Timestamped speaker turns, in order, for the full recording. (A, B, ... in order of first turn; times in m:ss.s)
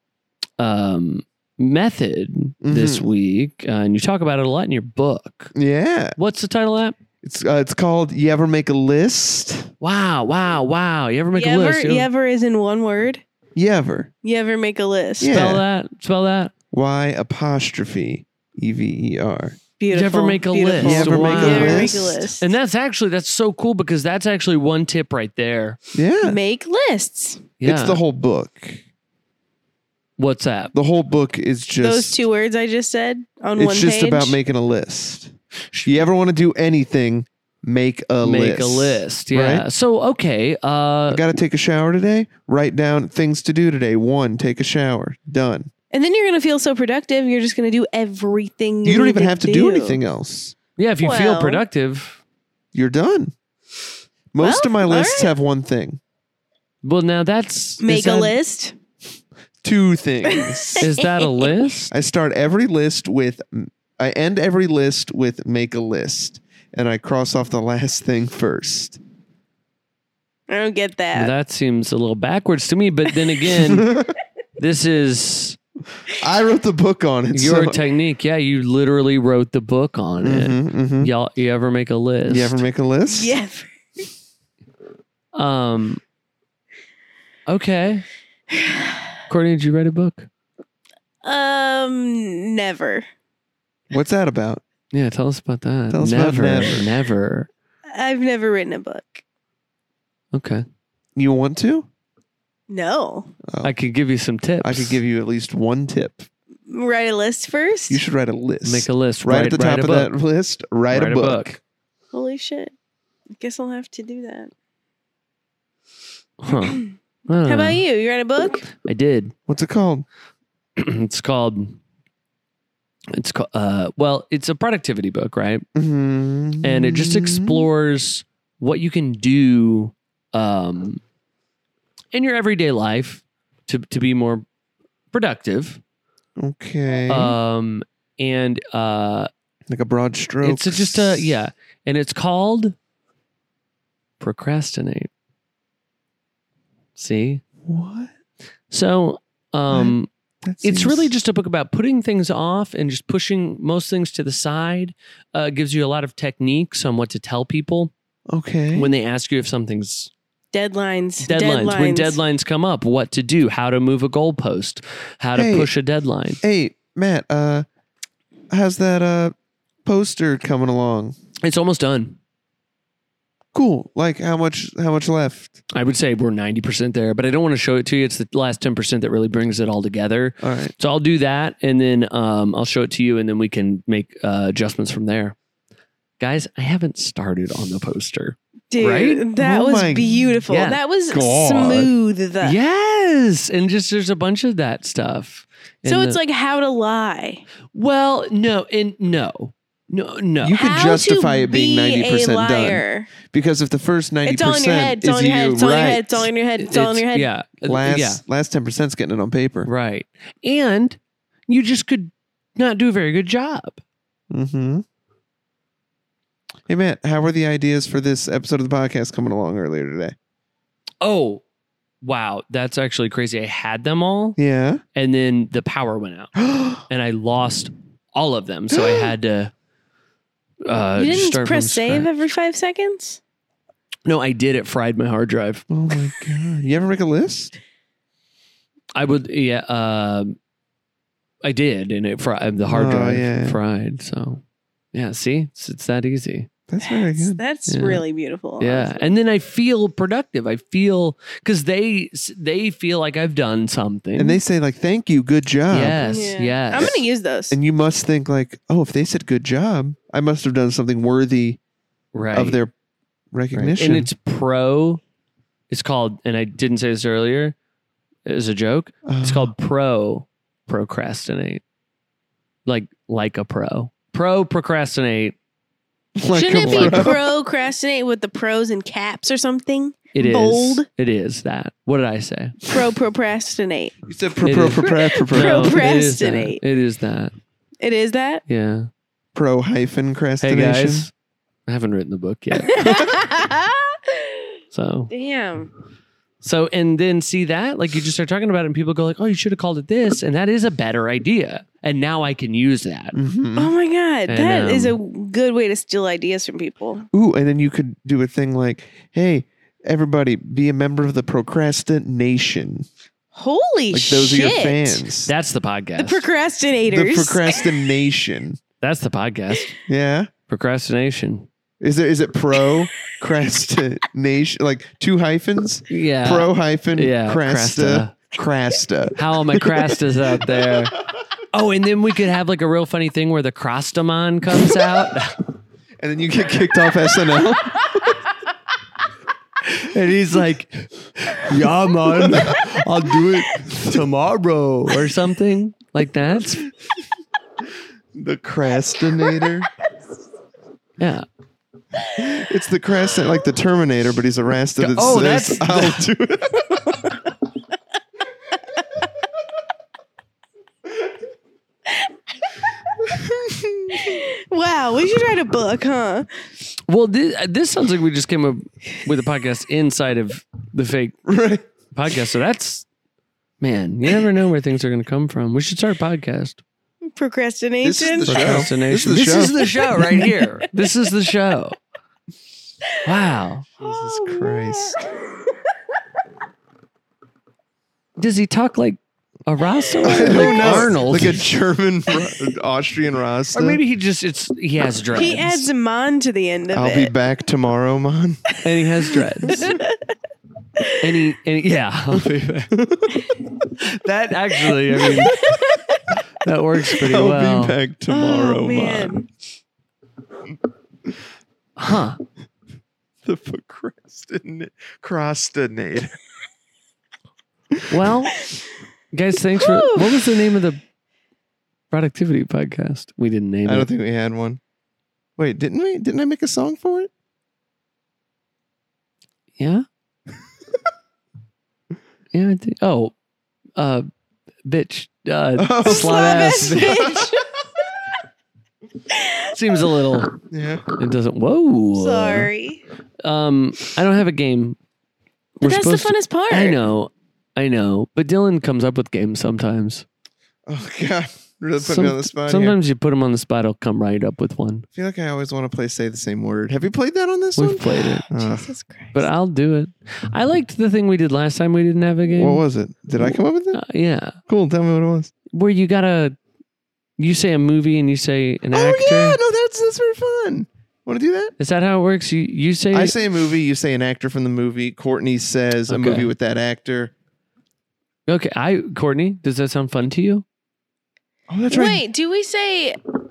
0:00.6-0:05.5 A
0:02.6-0:03.1 B
0:05.5-0:06.2 B
0:06.2-0:07.0 A
0:07.2-0:09.7 B
0:09.8-0:12.1 A
0:11.3-0:13.2 C
0:13.6-0:14.1 B
0:14.2-0:15.4 C
0:15.2-0:15.6 B
0:15.3-0:16.5 A
0:16.7-0:19.6 B
0:19.8-0:22.5 C
0:19.9-0:25.8 A
0:20.8-0:22.3 B
0:25.9-0:26.4 B
0:26.2-0:27.5 C
0:27.6-0:28.0 A
0:27.6-0:28.8 B
0:30.2-0:30.7 A
0:30.7-0:32.2 B
0:31.8-0:34.4 C
0:33.6-0:35.3 B
0:35.7-0:36.0 A
0:35.8-0:39.6 B
0:38.2-0:41.3 A
0:41.1-0:45.7 B
0:45.9-0:50.0 C
0:48.8-0:50.5 B
0:50.8-0:52.2 A
0:51.0-0:51.6 C
0:52.7-0:53.3 B
0:54.3-0:56.0 B
0:54.4-0:55.3 C
0:56.8-0:58.3 A
0:57.8-0:58.7 C
0:59.6-1:00.9 B
1:00.3-1:01.5 C
1:00.8-1:01.9 A
1:01.9-1:09.0 B
1:10.5-1:11.3 C
1:11.1-1:13.9 A
1:13.5-1:14.1 B
1:14.6-1:15.6 A
1:16.1-1:17.8 B
1:17.3-1:22.6 A
1:20.2-1:21.1 B
1:22.3-1:23.3 B
1:23.1-1:23.7 C
1:25.3-1:26.0 A
1:27.5-1:28.0 A
1:28.5-1:29.0 C
1:29.3-1:30.3 A
1:31.2-1:33.0 C
1:33.9-1:34.6 B
1:34.9-1:37.5 A
1:35.9-1:36.9 B
1:37.9-1:39.2 C
1:40.3-1:40.6 A
1:41.2-1:41.9 B
1:42.7-1:43.3 C
1:43.5-1:43.7 B
1:43.6-1:45.0 A
1:44.6-1:46.3 B
1:46.7-1:48.0 C
1:47.9-1:51.6 B
1:48.6-1:50.1 A
1:50.9-1:51.6 A
1:52.1-1:52.7 C
1:53.4-1:54.5 C
1:56.4-1:57.8 A
1:56.5-1:58.7 C
1:58.8-1:59.3 A
1:59.5-2:00.0 B
2:00.8-2:01.8 A
2:03.1-2:05.6 A
2:05.7-2:07.7 B
2:06.6-2:11.0 A
2:12.1-2:14.4 A
2:15.1-2:15.8 A
2:16.4-2:17.4 B
2:17.1-2:19.3 A
2:19.7-2:21.3 B
2:20.4-2:22.8 A
2:24.2-2:25.1 A
2:27.0-2:27.4 A
2:27.6-2:28.1 B
2:28.7-2:30.1 A
2:29.7-2:31.1 B
2:30.6-2:37.9 A
2:38.3-2:38.9 B
2:38.7-2:40.1 A
2:40.5-2:42.2 C
2:41.2-2:46.4 A
2:45.3-2:45.7 B
2:46.4-2:47.6 B
2:48.5-2:51.1 B
2:51.4-2:52.2 A
2:53.5-2:55.6 B
2:55.7-3:05.4 A
3:00.4-3:00.7 B
3:06.2-3:09.2 A
3:08.7-3:12.6 C
3:09.4-3:10.4 B
3:10.5-3:10.8 A
3:11.1-3:11.9 B
3:12.4-3:16.2 A
3:15.8-3:17.4 C
3:17.7-3:20.6 A
3:20.4-3:26.3 B
3:20.5-3:23.1 C
3:24.2-3:27.3 C
3:26.6-3:28.2 A
3:27.6-3:29.7 B
3:29.6-3:33.8 A
3:34.3-3:34.8 B
3:36.7-3:40.1 B
3:41.0-3:41.4 A
3:42.0-3:44.4 A
3:44.4-3:44.8 B
3:44.9-3:46.3 A
3:46.4-3:46.8 B
3:46.9-3:49.5 A
3:48.7-3:49.1 B
3:50.6-3:52.1 A
3:51.0-3:53.2 C
3:54.0-3:55.6 A
3:55.7-3:57.5 B
3:58.9-4:00.4 A
4:01.4-4:04.4 A
4:02.7-4:03.6 B
4:04.9-4:06.5 A
4:06.7-4:07.4 B
4:06.8-4:09.0 C
4:07.7-4:08.0 A
4:08.6-4:14.4 A
4:14.2-4:16.0 B
4:15.7-4:17.0 A
4:16.1-4:17.6 C
4:16.8-4:21.6 B
4:22.1-4:22.6 A
4:22.3-4:22.7 B
4:23.3-4:24.1 B
4:23.5-4:25.0 A
4:25.7-4:27.5 A
4:28.2-4:31.6 A
4:29.0-4:29.5 B
4:32.6-4:35.4 A
4:36.2-4:37.3 B
4:36.3-4:40.8 C
4:36.6-4:37.1 A
4:40.1-4:42.6 A
4:42.6-4:44.0 C
4:44.1-4:45.9 B
4:44.4-4:47.3 A
4:44.8-4:46.6 C
4:47.8-4:48.4 C
4:48.5-4:48.9 A
4:49.3-4:51.1 B
4:50.4-4:51.1 A
4:51.7-4:52.9 A
4:52.6-4:54.6 C
4:54.7-4:55.1 A
4:55.1-4:55.7 C
4:56.4-5:03.2 A
5:03.1-5:03.7 B
5:03.6-5:07.0 C
5:04.3-5:05.0 A
5:07.1-5:12.9 B
5:13.3-5:15.0 C
5:13.9-5:15.3 B
5:15.2-5:16.2 A
5:16.0-5:17.8 C
5:16.9-5:18.6 B
5:18.8-5:19.8 A
5:19.9-5:20.3 B
5:20.5-5:21.5 A
5:21.8-5:31.1 B
5:25.9-5:28.2 A
5:29.2-5:31.0 A
5:31.5-5:35.4 A
5:36.0-5:38.2 B
5:39.6-5:46.7 A
5:42.0-5:44.0 B
5:48.1-5:49.7 B
5:51.0-5:51.2 A
5:52.1-5:57.0 B
5:54.8-5:56.1 A
6:03.0-6:04.2 B
6:03.9-6:06.3 C
6:06.9-6:11.2 A
6:11.2-6:11.6 B
6:11.9-6:12.8 A
6:13.6-6:16.6 A
6:17.1-6:18.6 C
6:17.8-6:20.3 B
6:18.2-6:21.8 A
6:23.0-6:23.7 A
6:23.8-6:25.0 B
6:23.8-6:25.6 C
6:28.2-6:31.5 A
6:29.9-6:31.1 C
6:30.0-6:33.8 B
6:33.5-6:35.7 A
6:35.1-6:37.1 C
6:36.7-6:38.5 B
6:38.6-6:39.7 A
6:39.4-6:39.8 B
6:39.4-6:40.1 C
6:41.0-6:42.7 A
6:42.7-6:43.3 B
6:43.8-6:45.4 A
6:45.0-6:46.0 C
6:46.4-6:47.8 A
6:46.9-6:49.2 B
6:48.1-6:49.3 C
6:51.8-6:52.2 A
6:53.2-6:56.2 B
6:57.9-6:58.4 A
6:59.1-7:00.8 A
6:59.6-7:00.3 C
7:01.9-7:03.9 A
7:03.6-7:04.6 B
7:05.4-7:07.1 B
7:09.6-7:09.8 A
7:12.3-7:13.1 A
7:13.8-7:14.1 A
7:14.6-7:17.0 A
7:15.6-7:17.4 B
7:15.8-7:17.5 C
7:19.1-7:19.5 C
7:19.5-7:20.3 A
7:20.5-7:20.8 B
7:21.0-7:22.5 A
7:21.9-7:22.8 C
7:23.2-7:24.8 A
7:25.6-7:26.8 C
7:25.6-7:30.0 A
7:30.7-7:32.8 B
7:31.8-7:34.9 A
7:34.9-7:38.7 B
7:37.6-7:38.2 A
7:37.9-7:39.3 C
7:39.1-7:42.6 A
7:42.3-7:43.8 B
7:43.2-7:44.4 A
7:44.5-7:45.3 B
7:45.5-7:46.4 A
7:47.2-7:49.4 A
7:48.7-7:51.5 B
7:51.6-7:53.2 A
7:52.9-7:57.1 B
7:55.9-7:56.3 A
7:58.3-8:00.4 A
8:01.5-8:02.0 B
8:01.7-8:03.0 C